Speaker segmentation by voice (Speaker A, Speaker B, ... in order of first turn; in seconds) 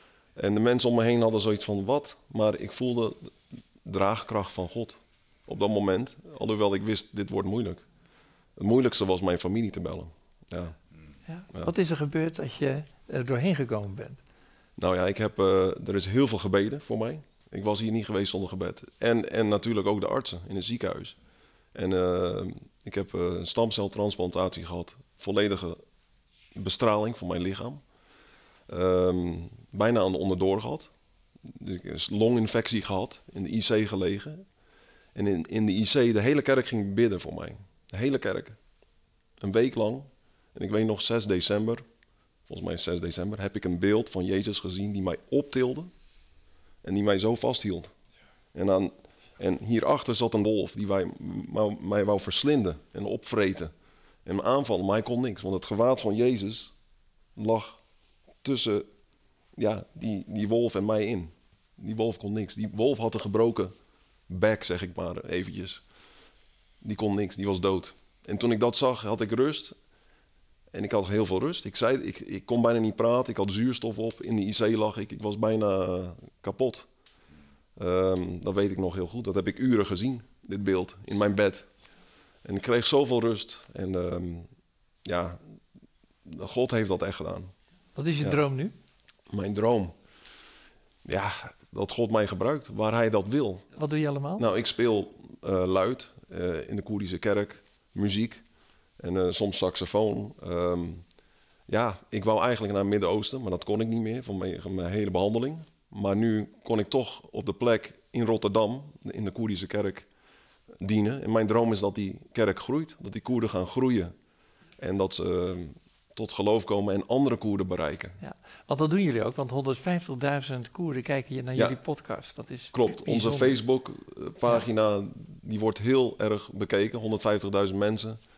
Speaker A: 0.4-7.8, 8.6-10.8, 14.8-21.2, 21.7-25.8, 26.6-27.8, 28.7-30.9, 31.5-34.5, 35.1-38.6, 39.4-41.8, 42.5-45.9, 46.8-47.9, 48.5-53.7, 54.2-56.7, 57.4-57.8, 58.4-58.9, 59.6-63.7, 64.3-65.8, 66.8-69.8, 70.7-76.9, 77.8-81.7, 82.4-84.5, 85.0-85.4, 86.3-87.5, 89.3-89.9, 91.0-93.7, 94.4-98.4, 99.0-101.1, 101.7-110.1, 110.8-114.1, 114.8-118.2, 122.7-128.2
Speaker B: 11.3-14.2, 88.0-88.7, 93.8-94.5, 118.2-123.6